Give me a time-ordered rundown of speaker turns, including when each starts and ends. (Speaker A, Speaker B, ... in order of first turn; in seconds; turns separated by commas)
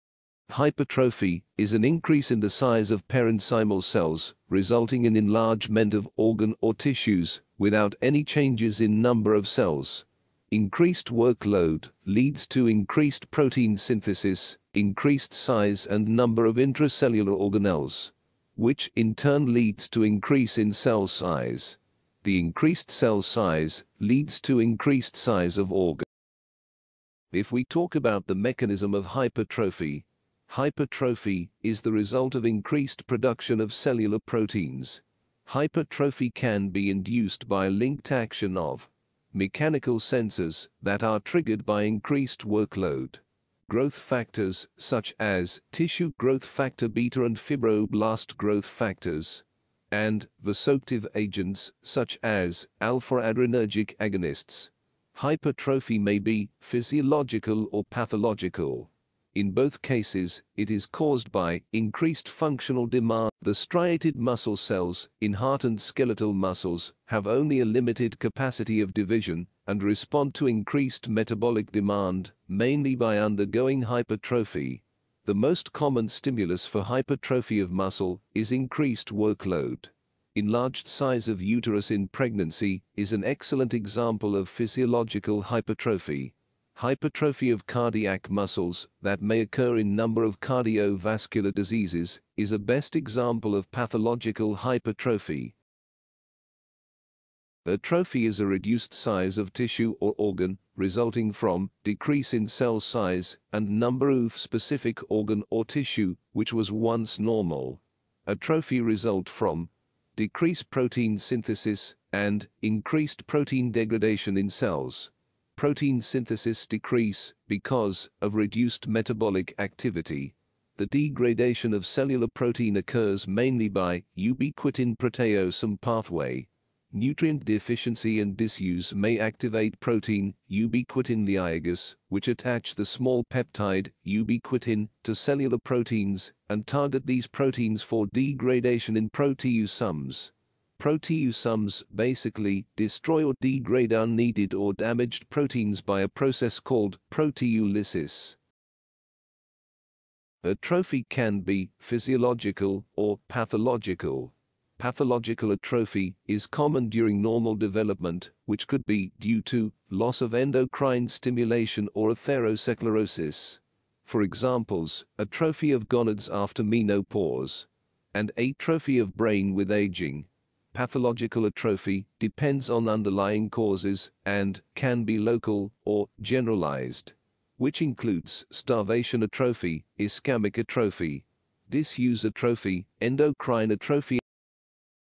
Speaker A: 0.5-26.1, Speaker A: 27.3-95.5, Speaker A: 97.6-148.4, Speaker A: 150.4-184.2